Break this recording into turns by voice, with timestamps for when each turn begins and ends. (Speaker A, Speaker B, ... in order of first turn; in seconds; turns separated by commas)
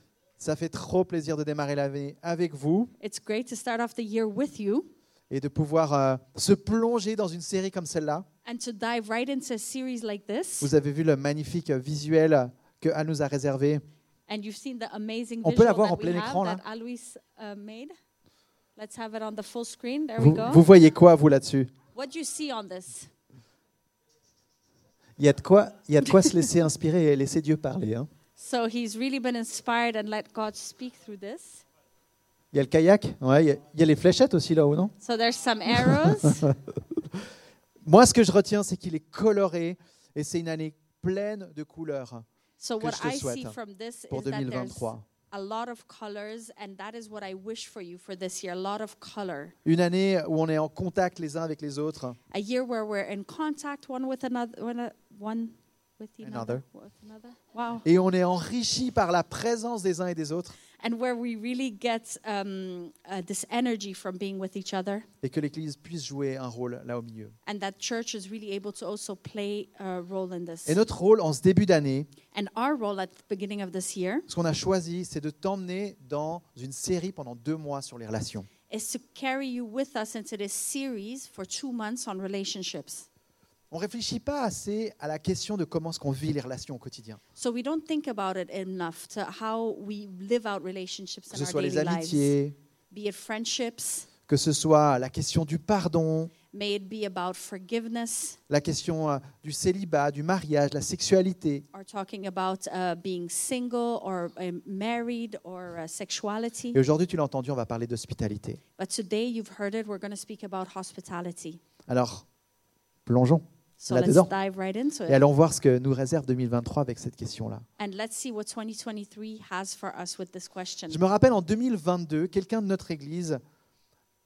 Speaker A: 0.4-2.9, Speaker B: 3.0-4.9, Speaker A: 5.3-8.3, Speaker B: 8.4-10.7, Speaker A: 10.6-13.8, Speaker B: 14.3-17.9, Speaker A: 15.4-16.6, Speaker B: 18.8-20.6, Speaker A: 20.2-21.7, Speaker B: 21.9-23.1, Speaker A: 25.2-28.1, Speaker B: 28.4-31.6, Speaker A: 32.5-34.9, Speaker B: 35.0-36.4, Speaker A: 35.7-37.2, Speaker A: 37.9-42.3, Speaker B: 42.6-49.5, Speaker A: 42.8-43.6, Speaker A: 44.1-45.0, Speaker A: 49.6-52.2, Speaker B: 52.3-57.9, Speaker A: 56.2-56.6, Speaker A: 57.8-60.6, Speaker B: 60.8-65.1, Speaker A: 65.2-67.4, Speaker B: 67.5-70.8, Speaker A: 70.7-72.1, Speaker B: 72.3-74.3, Speaker A: 74.3-78.5, Speaker B: 78.7-83.1, Speaker A: 83.7-87.2, Speaker B: 87.4-92.3, Speaker A: 91.3-92.5, Speaker B: 92.9-94.1, Speaker A: 94.3-96.3, Speaker B: 96.5-98.4, Speaker A: 98.5-101.7, Speaker B: 101.7-106.8, Speaker A: 106.7-108.6, Speaker B: 108.8-111.6, Speaker A: 111.9-112.2, Speaker A: 113.1-114.3, Speaker B: 113.8-115.2, Speaker A: 115.1-117.7, Speaker B: 117.8-121.0, Speaker A: 120.9-123.4